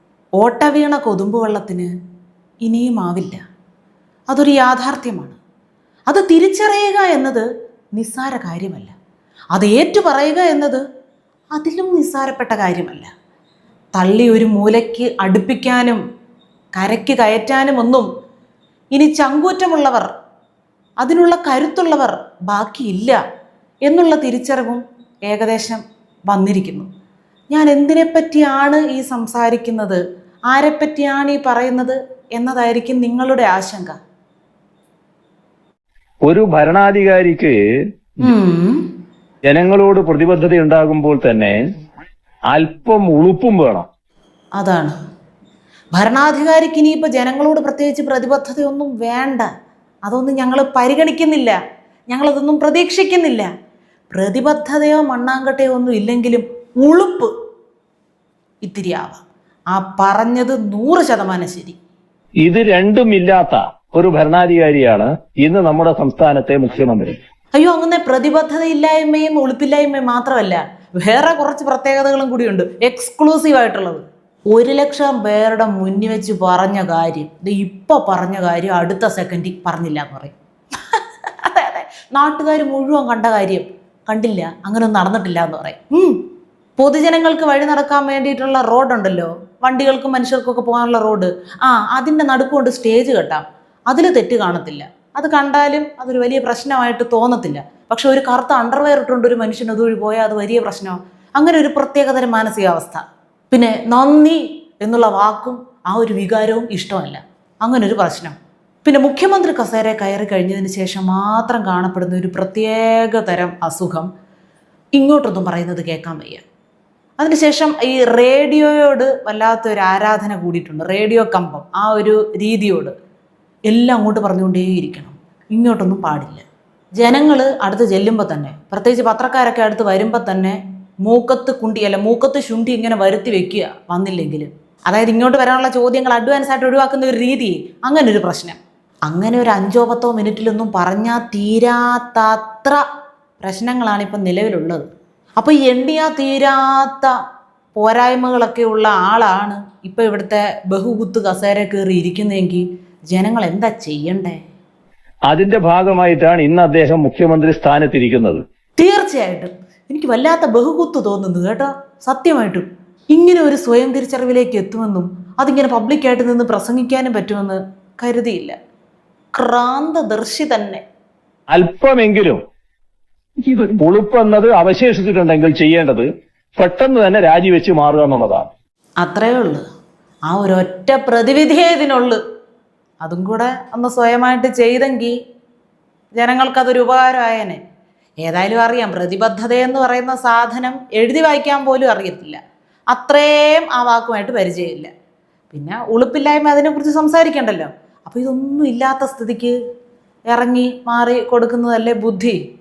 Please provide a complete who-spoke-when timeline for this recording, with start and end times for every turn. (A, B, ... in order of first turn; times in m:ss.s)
0:00.4-0:01.9 A
0:02.6-0:03.4 A
0:04.3-0:05.4 A
0:06.1-0:08.9 A
0:09.5-0:10.8 A
0:11.5-0:13.1 A
0:13.9-0:16.0 A
0:16.7-0:18.1 A
0:18.9-0:20.1 A
0:21.0-0:23.2 A
0:23.9-0:26.9 A
0:27.5-0:34.0 A
0:36.2-0:37.6 B
0:38.2-0:38.8 A
0:39.5-0:41.6 B
0:42.5-0:43.9 B
0:44.6-0:45.0 A
0:45.9-0:49.5 A
0:50.0-0:51.6 A
0:52.1-0:53.5 A
0:54.1-0:57.3 A
0:58.6-1:01.8 A
1:02.4-1:07.2 B
1:07.5-1:26.2 A
1:26.8-1:54.1 A
1:55.0-1:56.4 A
1:57.2-2:03.0 A
2:03.7-2:06.4 A
2:07.0-2:22.8 A
2:23.4-2:24.9 A
2:25.4-2:27.1 A
2:27.8-2:34.4 A
2:35.3-2:38.4 B
2:38.8-2:48.6 A
2:49.4-2:50.8 A
2:51.5-2:52.4 B
2:53.4-2:56.0 B
2:56.6-2:58.5 B
2:59.0-2:59.6 A
3:00.3-3:02.2 A
3:03.0-3:05.2 A
3:06.2-3:07.6 A
3:08.2-3:12.4 A
3:12.9-3:14.9 A
3:15.5-3:19.6 A
3:20.3-3:22.4 A